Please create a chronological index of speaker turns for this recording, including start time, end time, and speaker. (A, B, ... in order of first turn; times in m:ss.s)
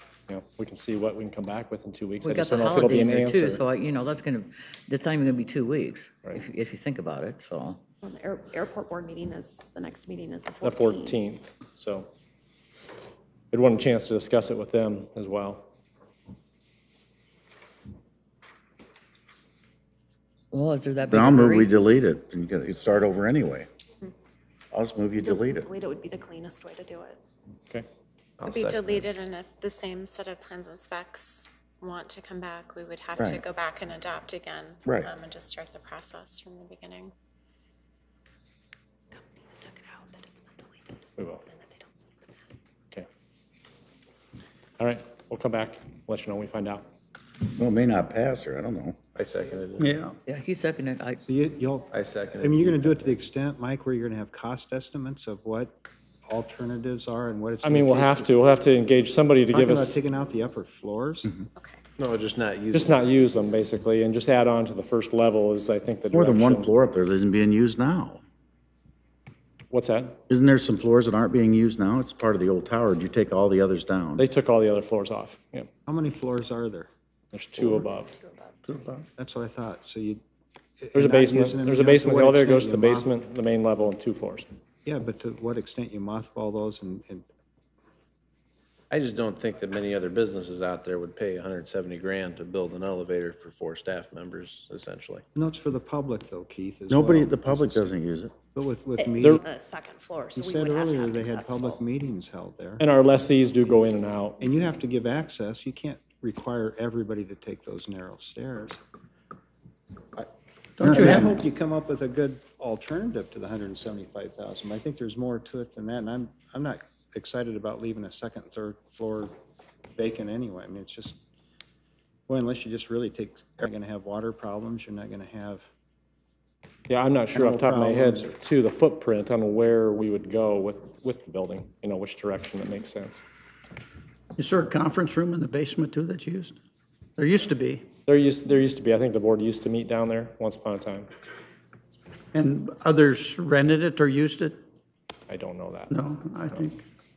0:00.3-0:03.6 A
0:02.2-0:07.8 B
0:08.0-0:11.2 C
0:10.6-0:12.1 A
0:13.5-0:15.7 A
0:20.5-0:21.7 B
0:21.1-0:23.7 D
0:24.7-0:25.7 D
0:25.2-0:27.2 C
0:28.4-0:29.1 E
0:28.5-0:37.1 F
0:39.4-0:41.9 C
0:41.2-0:41.4 A
0:44.8-0:46.9 A
0:47.5-0:49.0 D
0:49.1-0:50.0 E
0:49.8-0:50.2 G
0:50.2-0:51.2 B
0:51.2-0:58.4 H
0:51.9-0:53.1 E
0:57.6-1:00.0 A
0:59.5-1:01.3 H
1:02.0-1:03.2 E
1:02.7-1:06.7 A
1:06.1-1:08.2 D
1:09.7-1:10.2 A
1:10.3-1:14.2 D
1:14.2-1:15.7 A
1:15.8-1:16.9 H
1:17.3-1:18.1 A
1:18.7-1:19.0 G
1:19.2-1:20.2 H
1:20.8-1:23.1 H
1:20.9-1:24.5 A
1:24.8-1:27.3 H
1:28.9-1:35.2 E
1:35.3-1:37.9 H
1:36.9-1:38.3 D
1:38.5-1:39.4 H
1:39.0-1:41.8 C
1:40.3-1:42.8 H
1:42.8-1:44.4 A
1:44.4-1:48.8 H
1:50.8-1:51.4 G
1:50.8-1:59.3 H
2:00.0-2:01.2 H
2:02.3-2:05.6 H
2:06.9-2:13.2 A
2:07.3-2:08.3 H
2:14.4-2:16.6 G
2:17.2-2:17.8 G
2:18.0-2:21.1 A
2:22.3-2:24.6 G
2:25.3-2:26.7 A
2:25.9-2:26.8 G